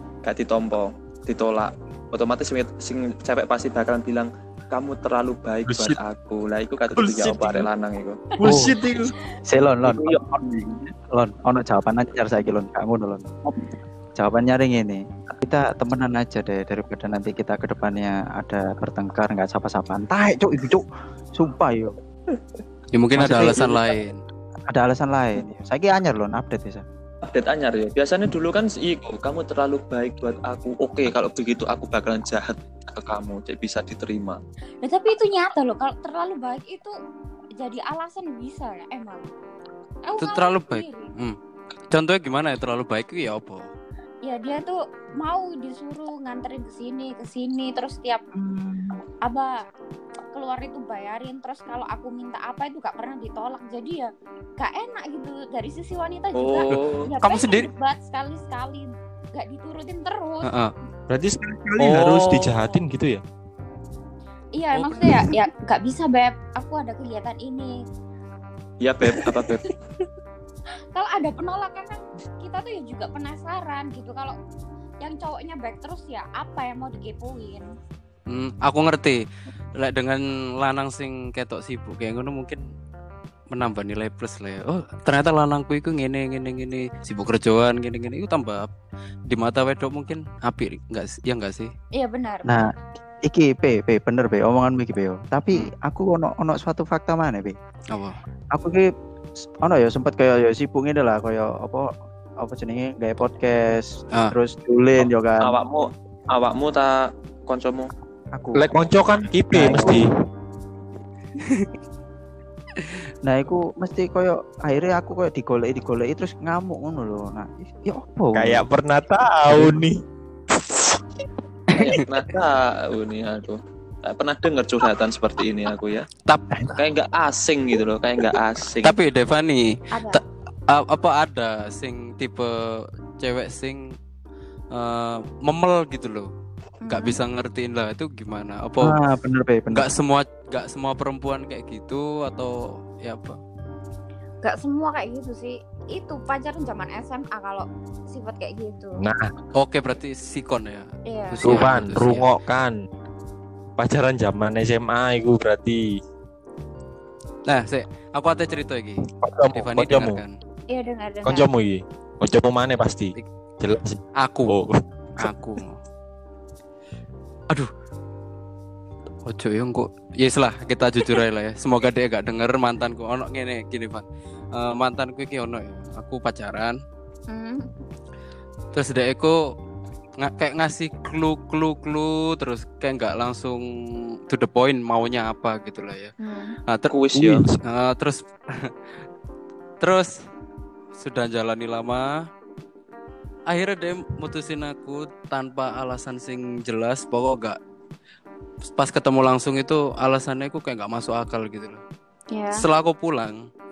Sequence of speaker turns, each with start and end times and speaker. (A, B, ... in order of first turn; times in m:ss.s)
0:00.2-0:08.3 A
0:05.7-0:06.0 B
0:06.9-0:07.7 B
0:08.4-0:09.1 B
0:08.4-0:08.8 C
0:09.5-0:10.4 C
0:09.9-0:10.8 A
0:11.1-0:13.3 C
0:14.2-0:20.8 C
0:21.3-0:21.9 C
0:22.9-0:24.2 D
0:23.2-0:23.9 C
0:24.7-0:26.8 C
0:27.2-0:34.4 A
0:34.8-0:36.9 E
0:37.6-0:39.2 E
0:40.1-0:41.1 E
0:40.2-0:41.4 D
0:41.9-0:43.7 D
0:44.2-0:48.2 E
0:48.4-0:49.0 C
0:49.2-0:49.6 E
0:50.3-1:00.5 E
0:56.4-0:57.1 A
0:56.7-0:57.7 D
1:00.4-1:00.7 D
1:01.1-1:03.2 B
1:01.8-1:02.7 A
1:04.6-1:07.7 E
1:08.8-1:09.7 A
1:11.0-1:14.4 E
1:15.0-1:17.6 E
1:18.3-1:19.2 D
1:19.8-1:22.6 D
1:23.5-1:28.7 D
1:29.3-1:31.7 D
1:32.0-1:32.6 E
1:32.5-1:32.7 C
1:33.2-1:37.6 C
1:37.9-1:38.2 D
1:38.5-1:38.9 C
1:39.6-1:45.6 C
1:45.4-1:47.9 A
1:48.3-1:48.7 C
1:48.6-1:50.2 B
1:49.5-1:50.0 C
1:49.8-1:50.0 A
1:51.4-1:51.7 D
1:53.2-1:58.6 C
1:58.3-2:00.0 B
2:01.8-2:06.1 A
2:06.8-2:09.0 A
2:08.8-2:13.9 D
2:09.9-2:10.2 E
2:14.7-2:16.3 D
2:16.9-2:17.2 E
2:16.9-2:19.0 D
2:18.8-2:19.9 C
2:19.7-2:23.4 D
2:24.4-2:29.0 E
2:29.0-2:29.3 B
2:29.6-2:32.3 D
2:31.1-2:31.7 E
2:31.4-2:32.8 B
2:33.8-2:35.8 B
2:37.5-2:39.0 D
2:39.0-2:40.2 B
2:39.5-2:40.3 D
2:40.7-2:41.5 E
2:41.2-2:45.3 B
2:44.2-2:44.6 D
2:45.2-2:45.8 D
2:49.3-2:56.8 D
2:57.3-2:57.7 E
2:58.7-2:59.4 D
3:00.2-3:03.6 D
3:04.3-3:06.1 D
3:06.2-3:06.6 E
3:06.7-3:07.0 D
3:06.9-3:07.5 A
3:07.5-3:08.7 D
3:09.8-3:10.1 D
3:11.0-3:12.3 D
3:13.5-3:17.6 D
3:18.7-3:21.8 D
3:22.3-3:22.6 E
3:22.5-3:23.4 D